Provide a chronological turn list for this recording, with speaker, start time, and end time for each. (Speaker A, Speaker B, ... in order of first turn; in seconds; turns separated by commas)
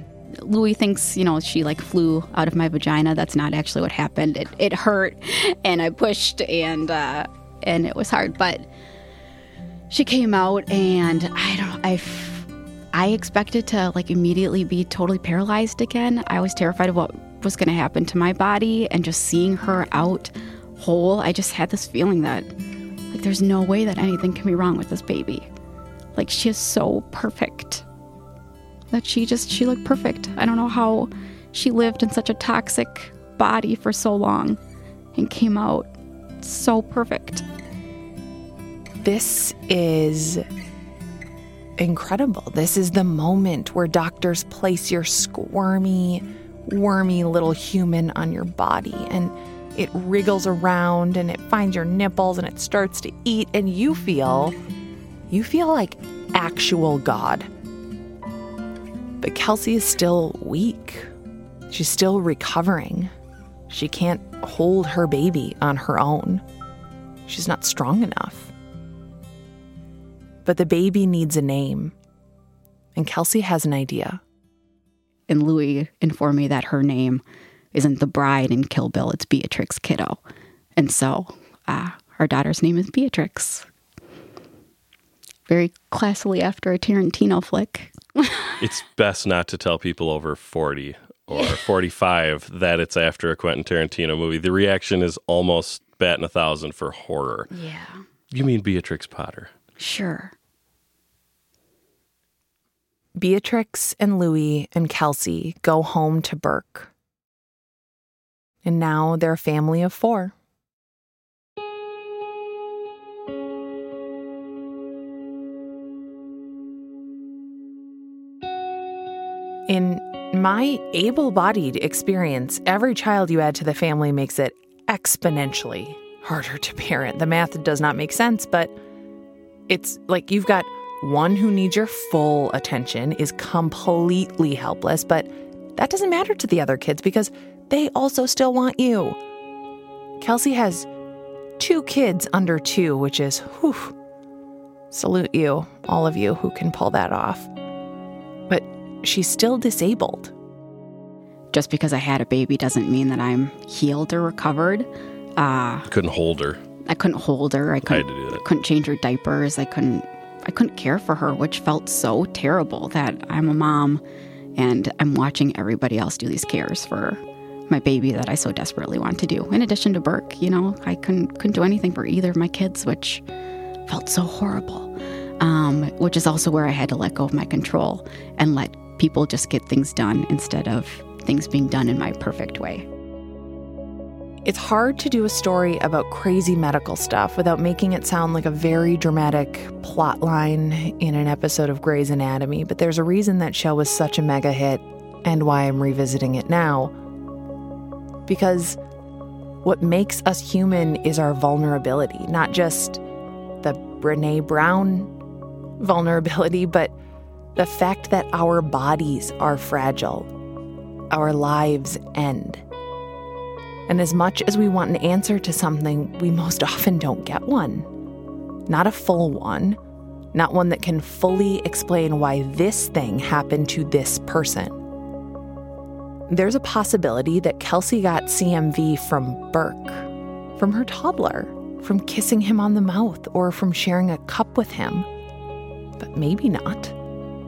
Speaker A: 0.4-8.7, Speaker A: 9.9-22.5, Speaker A: 23.1-25.5, Speaker A: 26.1-27.9, Speaker A: 28.9-34.6, Speaker A: 35.1-37.5, Speaker B: 39.0-40.5, Speaker B: 41.8-54.6, Speaker B: 55.3-57.5, Speaker B: 59.2-61.1, Speaker B: 61.7-63.1, Speaker B: 63.7-66.4, Speaker B: 67.3-68.5, Speaker B: 70.5-72.0, Speaker B: 73.0-74.2, Speaker A: 75.3-77.2, Speaker A: 77.7-80.2, Speaker A: 80.8-83.7, Speaker A: 85.5-88.6, Speaker C: 88.6-97.5, Speaker A: 97.5-98.0, Speaker C: 98.3-99.5, Speaker A: 99.8-100.3, Speaker B: 103.2-106.9, Speaker B: 108.7-110.3, Speaker B: 119.7-128.8, Speaker B: 129.7-139.2, Speaker B: 140.2-140.9, Speaker B: 141.6-143.9, Speaker B: 144.9-147.5, Speaker B: 148.5-150.3, Speaker A: 151.5-155.9, Speaker C: 155.9-156.6, Speaker A: 156.9-164.0, Speaker C: 157.9-158.4, Speaker A: 164.6-173.2, Speaker A: 173.9-182.9, Speaker B: 184.4-196.9, Speaker B: 198.3-198.8, Speaker B: 199.6-203.0, Speaker B: 203.6-205.2, Speaker B: 205.8-206.9, Speaker B: 207.6-210.3, Speaker B: 211.1-212.6, Speaker B: 213.9-217.9, Speaker B: 218.7-219.8, Speaker B: 220.3-224.8, Speaker B: 226.3-235.1, Speaker B: 236.0-237.0